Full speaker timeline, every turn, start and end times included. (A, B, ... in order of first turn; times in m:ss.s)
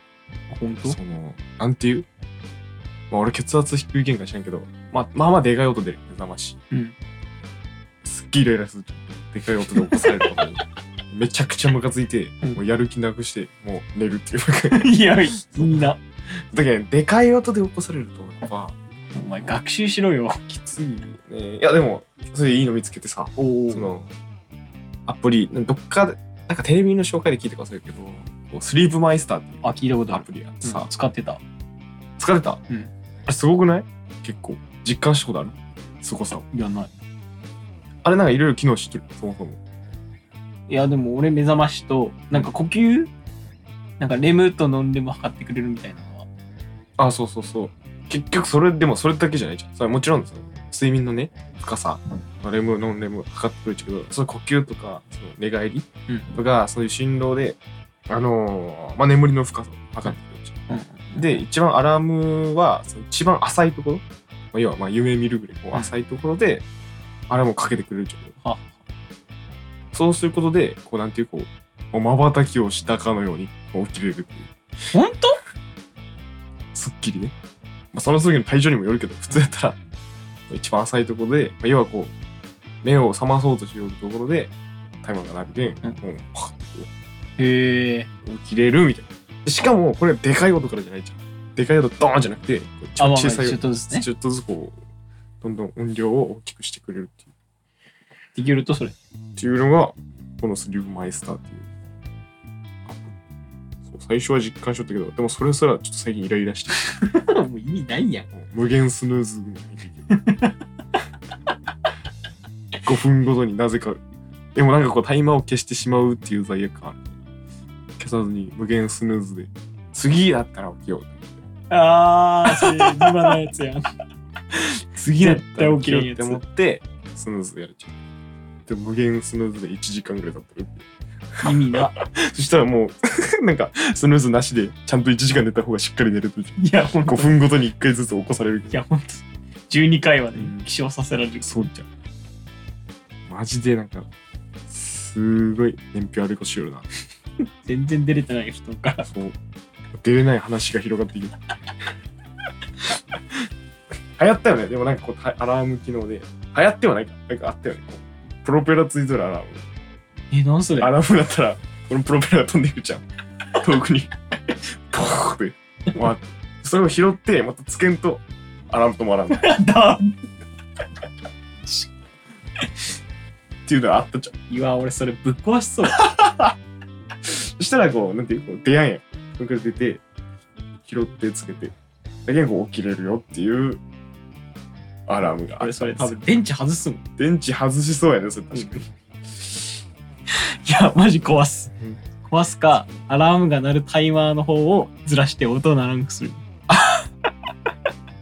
0:00.5-0:01.0 A
0:00.8-0:02.1 B
0:03.1-0:06.6 B
0:08.0-0:14.9 B
0:09.9-0:10.3 A
0:14.7-0:16.0 A
0:15.6-0:15.8 B
0:16.4-0:18.8 B
0:19.1-0:20.6 A
0:20.6-0:24.1 B
0:23.4-0:23.9 A
0:25.1-0:30.9 B
0:29.6-0:31.4 A
0:32.2-0:32.6 B
0:33.3-0:36.5 B
0:36.5-0:36.9 A
0:38.0-0:39.6 B
0:40.7-0:43.1 A
0:44.0-0:46.3 A
0:47.0-0:57.6 B
0:58.1-1:00.6 B
1:00.7-1:01.4 A
1:01.2-1:06.6 B
1:07.3-1:08.4 B
1:09.9-1:14.5 B
1:14.9-1:15.4 A
1:16.7-1:17.4 B
1:17.9-1:19.8 B
1:20.5-1:22.1 B
1:22.8-1:24.5 B
1:25.0-1:26.9 B
1:27.4-1:28.1 A
1:28.2-1:34.8 B
1:33.0-1:34.1 A
1:35.4-1:37.2 B
1:38.3-1:39.0 A
1:39.4-1:41.7 B
1:43.9-1:46.9 B
1:46.9-1:48.3 A
1:48.3-1:50.1 B
1:50.1-1:50.6 A
1:52.8-1:54.0 B
1:54.6-1:57.1 B
1:58.0-2:01.4 B
2:01.7-2:03.9 A
2:02.5-2:03.3 B
2:04.6-2:08.0 B
2:05.2-2:06.4 A
2:08.7-2:18.8 B
2:11.4-2:12.0 A
2:16.6-2:17.3 A
2:18.7-2:21.7 A
2:20.4-2:20.7 B
2:21.4-2:21.9 B
2:23.3-2:24.1 B
2:24.7-2:26.9 B
2:27.6-2:29.1 A
2:29.0-2:29.4 B
2:30.0-2:31.4 B
2:34.2-2:39.6 B
2:40.3-2:40.9 A
2:40.8-2:49.6 B
2:49.3-2:50.2 A
2:53.7-2:54.3 B
2:54.5-2:56.0 A
2:55.9-2:56.5 B
2:57.2-3:00.0 B
3:00.8-3:01.7 B
3:02.2-3:03.8 B
3:05.1-3:06.2 B
3:05.6-3:07.0 A
3:07.2-3:08.9 B
3:08.5-3:08.8 A
3:10.3-3:11.7 A
3:12.2-3:16.4 A
3:16.7-3:17.0 B